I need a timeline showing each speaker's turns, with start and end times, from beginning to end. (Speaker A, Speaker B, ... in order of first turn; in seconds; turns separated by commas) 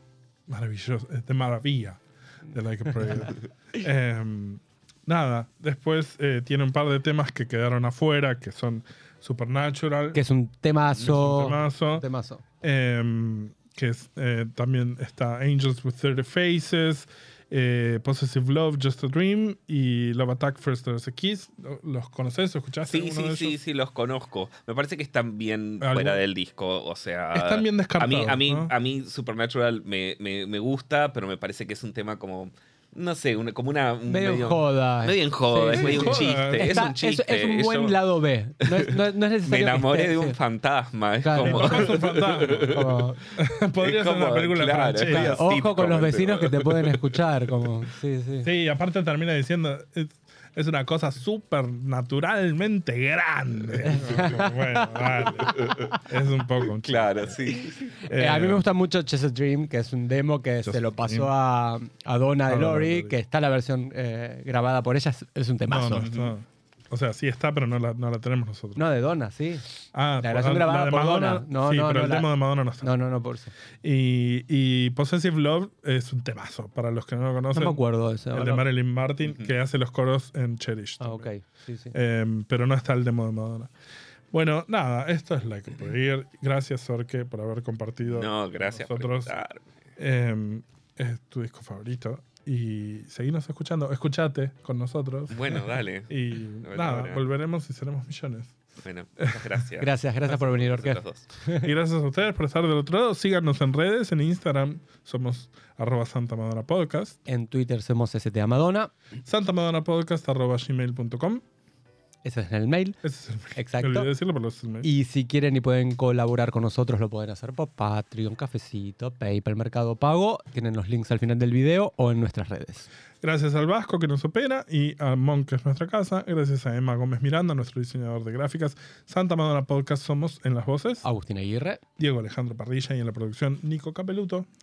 Speaker A: 0.5-10.2, Speaker B: 2.9-3.3, Speaker B: 10.1-12.4, Speaker A: 10.9-12.1, Speaker A: 12.6-23.6, Speaker C: 22.9-38.0, Speaker A: 25.8-26.2, Speaker A: 27.3-28.7, Speaker B: 34.1-40.4, Speaker A: 35.7-36.9, Speaker C: 38.6-43.1, Speaker B: 41.2-43.2, Speaker A: 41.4-42.8, Speaker A: 43.4-45.5, Speaker C: 43.8-47.2, Speaker B: 45.1-48.5, Speaker A: 48.4-57.4, Speaker C: 53.8-54.4, Speaker B: 53.9-54.9, Speaker C: 55.6-56.0, Speaker C: 56.8-58.1, Speaker A: 58.0-58.6, Speaker B: 58.1-66.1, Speaker A: 60.6-61.3, Speaker A: 62.5-63.2, Speaker A: 65.7-68.8, Speaker B: 68.8-72.3, Speaker A: 69.9-73.0, Speaker B: 72.8-73.5, Speaker A: 73.8-81.3, Speaker B: 77.5-78.7, Speaker C: 79.2-79.5, Speaker B: 81.0-82.0, Speaker A: 81.9-83.7, Speaker A: 84.3-89.3, Speaker C: 88.0-89.6, Speaker A: 90.0-98.6, Speaker C: 95.3-97.2, Speaker C: 98.8-101.3, Speaker B: 99.8-101.7, Speaker A: 101.6-107.2, Speaker B: 107.3-108.9, Speaker A: 109.2-111.4, Speaker B: 112.2-113.0, Speaker A: 113.0-114.9, Speaker B: 113.5-114.1, Speaker B: 114.8-122.9, Speaker A: 123.2-131.1, Speaker B: 131.0-131.8, Speaker A: 132.0-134.5